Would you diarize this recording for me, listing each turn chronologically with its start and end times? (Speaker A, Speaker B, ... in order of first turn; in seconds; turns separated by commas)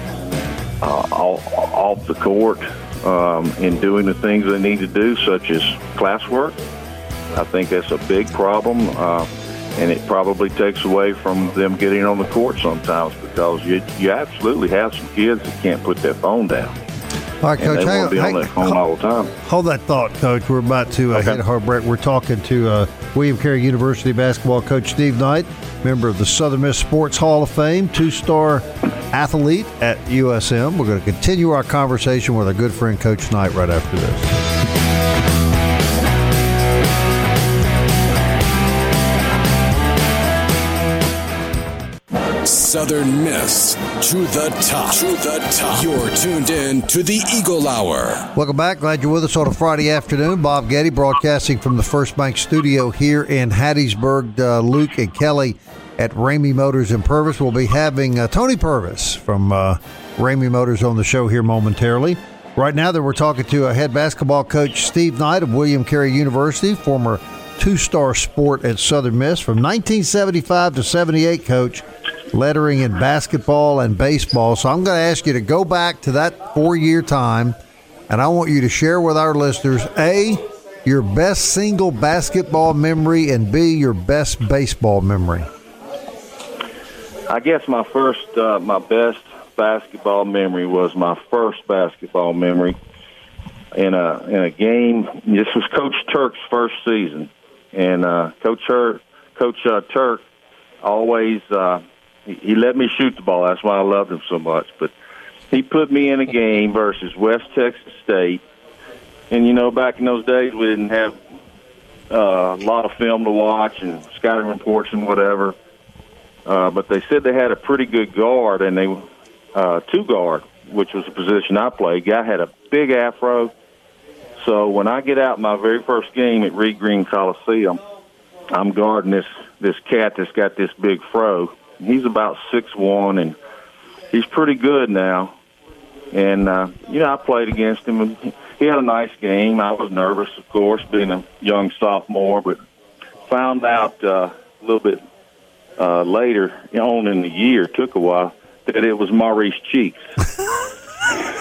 Speaker A: 0.8-6.6, Speaker A: 7.3-16.8, Speaker B: 17.4-18.8, Speaker A: 17.6-19.3, Speaker B: 19.4-34.3, Speaker A: 21.1-21.4, Speaker C: 42.4-48.3, Speaker B: 48.3-77.5, Speaker B: 78.1-85.5, Speaker A: 87.3-92.8, Speaker A: 93.7-100.2, Speaker A: 100.8-104.9, Speaker A: 105.5-108.4, Speaker A: 109.3-111.2, Speaker A: 112.1-115.5, Speaker A: 116.5-123.5, Speaker A: 124.4-127.8, Speaker A: 128.5-133.3, Speaker A: 134.1-135.3, Speaker A: 136.1-142.6, Speaker A: 143.3-145.0, Speaker A: 145.8-150.0